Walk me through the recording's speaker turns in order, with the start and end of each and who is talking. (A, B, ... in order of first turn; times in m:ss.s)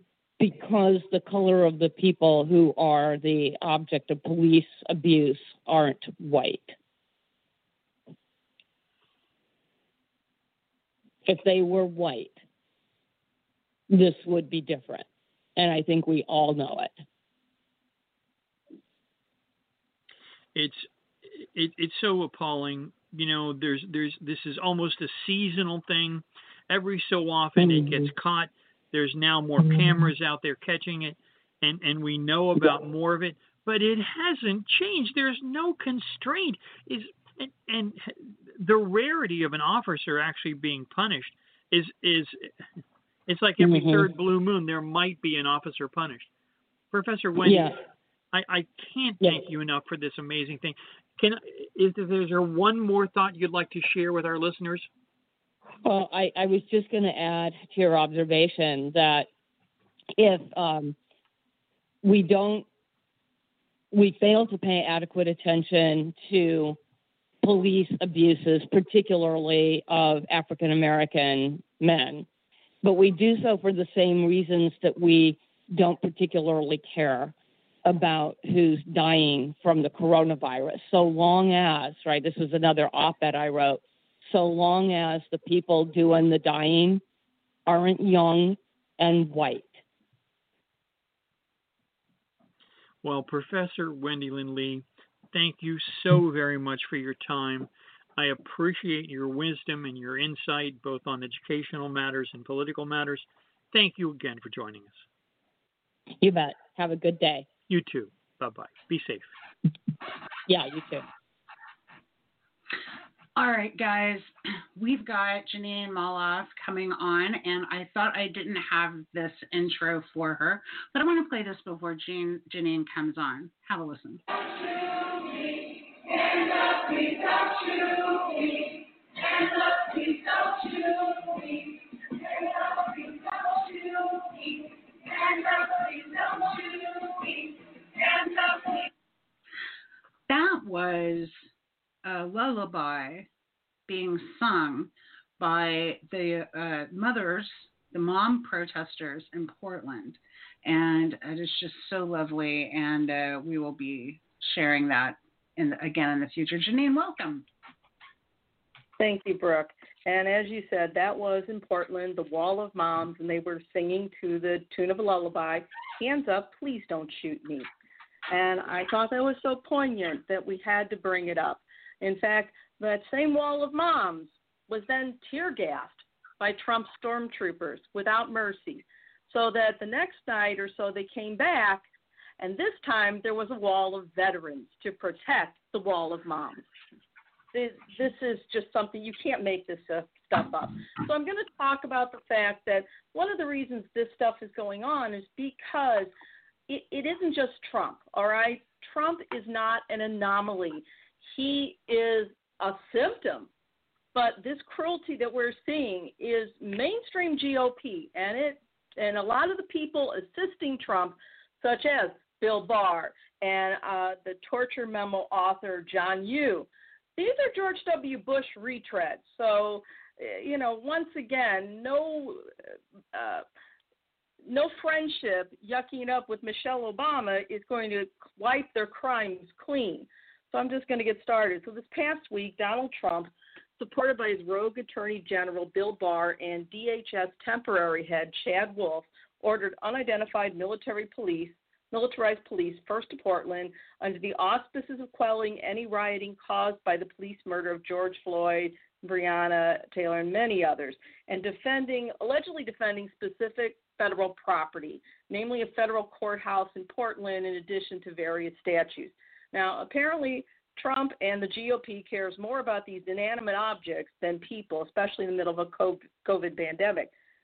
0:00.4-0:06.8 A
0:11.2-0:12.4 A
0:13.9-0:17.0 A
0:20.6-0:20.9 B
0:21.4-0:42.5 B
0:43.3-0:46.3 B
0:43.6-0:44.1 A
0:46.9-0:47.8 B
0:47.4-0:47.8 A
0:48.3-0:54.9 B
0:55.8-0:59.3 A
1:00.2-1:01.0 A
1:02.0-1:02.7 A
1:03.9-1:06.8 A
1:07.4-1:12.3 A
1:12.8-1:17.3 A
1:17.8-1:27.0 A
1:27.7-1:29.8 A
1:33.0-1:45.0 B
1:46.2-1:47.5 A
1:47.7-1:49.3 B
1:50.5-1:51.1 A
1:53.4-2:04.2 C
2:20.3-2:21.4 C
2:22.0-2:23.3 C
2:23.9-2:37.5 C
2:39.0-2:47.7 D
2:48.3-3:01.8 D
3:02.4-3:06.6 D
3:07.5-3:16.1 D
3:16.7-3:23.5 D
3:24.1-3:42.4 D
3:43.1-3:43.4 D
3:44.4-4:27.1 D